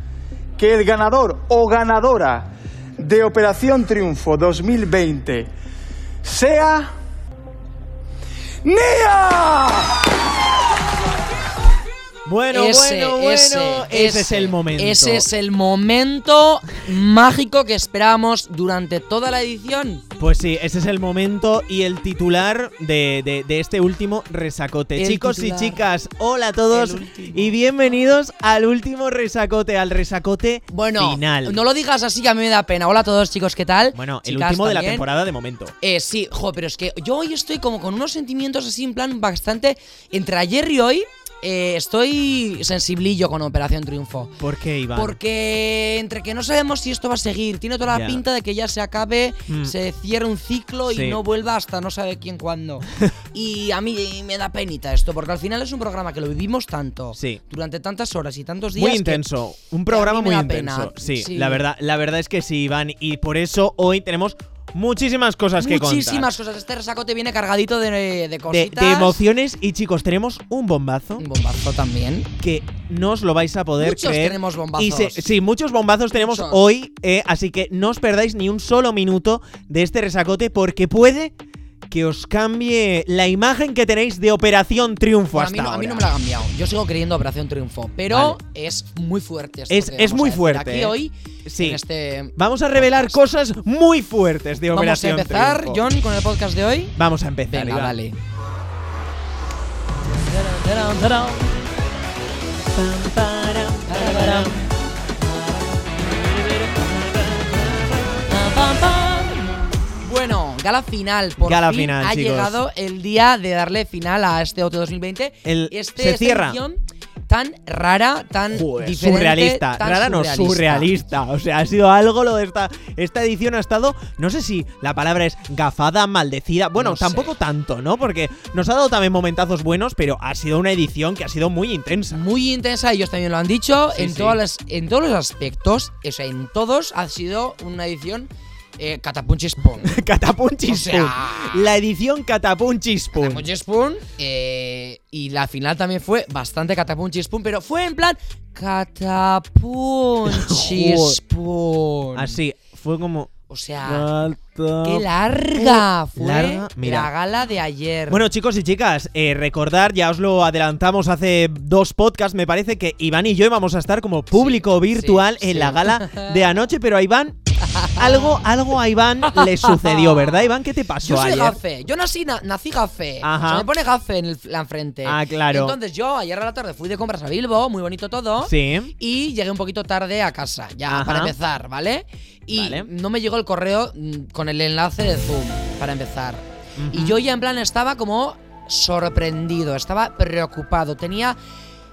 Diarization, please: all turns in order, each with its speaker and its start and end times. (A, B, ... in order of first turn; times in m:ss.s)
0:00.6-0:02.5 A
0:03.0-0:05.5 A
0:06.2-0:06.9 A
0:08.6-0:10.2 A
0:12.2-0:15.2 B
0:12.5-0:20.0 C
0:20.2-0:31.6 B
0:25.0-0:25.8 C
0:26.7-0:27.6 C
0:30.7-0:35.1 C
0:33.9-0:35.7 B
0:35.8-0:44.4 C
0:44.4-0:45.2 B
0:44.9-0:59.2 C
0:47.9-0:48.2 B
0:49.5-0:49.7 B
0:50.9-0:51.2 B
0:57.2-0:57.4 B
0:58.7-1:06.3 B
0:59.9-1:01.6 C
1:05.6-1:09.2 C
1:08.5-1:11.2 B
1:11.2-1:12.3 C
1:12.4-1:21.3 B
1:13.8-1:15.2 C
1:16.2-1:16.6 C
1:21.9-1:26.1 B
1:25.3-1:33.2 C
1:28.1-1:28.4 B
1:29.7-1:31.8 B
1:32.4-1:35.8 B
1:34.7-1:38.2 C
1:37.0-1:38.0 B
1:40.4-1:41.3 C
1:42.7-1:44.6 B
1:43.9-1:44.6 C
1:47.2-1:47.5 B
1:48.2-2:00.9 C
1:51.4-1:52.6 B
1:55.4-1:56.6 B
1:58.5-2:12.2 B
2:06.8-2:07.3 C
2:12.1-2:20.0 C
2:13.9-2:14.4 B
2:19.8-2:23.5 B
2:20.7-2:21.7 C
2:23.1-2:32.4 C
2:30.2-2:31.2 B
2:32.1-2:33.3 B
2:33.5-2:34.1 C
2:33.8-2:37.1 B
2:34.8-2:38.3 C
2:38.1-2:47.4 B
2:44.3-2:46.4 C
2:47.6-2:48.4 C
2:47.9-2:51.6 B
2:49.3-2:50.5 C
2:51.0-3:11.4 C
2:53.2-2:53.7 B
2:55.0-2:55.8 B
2:58.4-2:58.9 B
3:00.9-3:01.3 B
3:02.5-3:02.9 B
3:06.8-3:07.2 B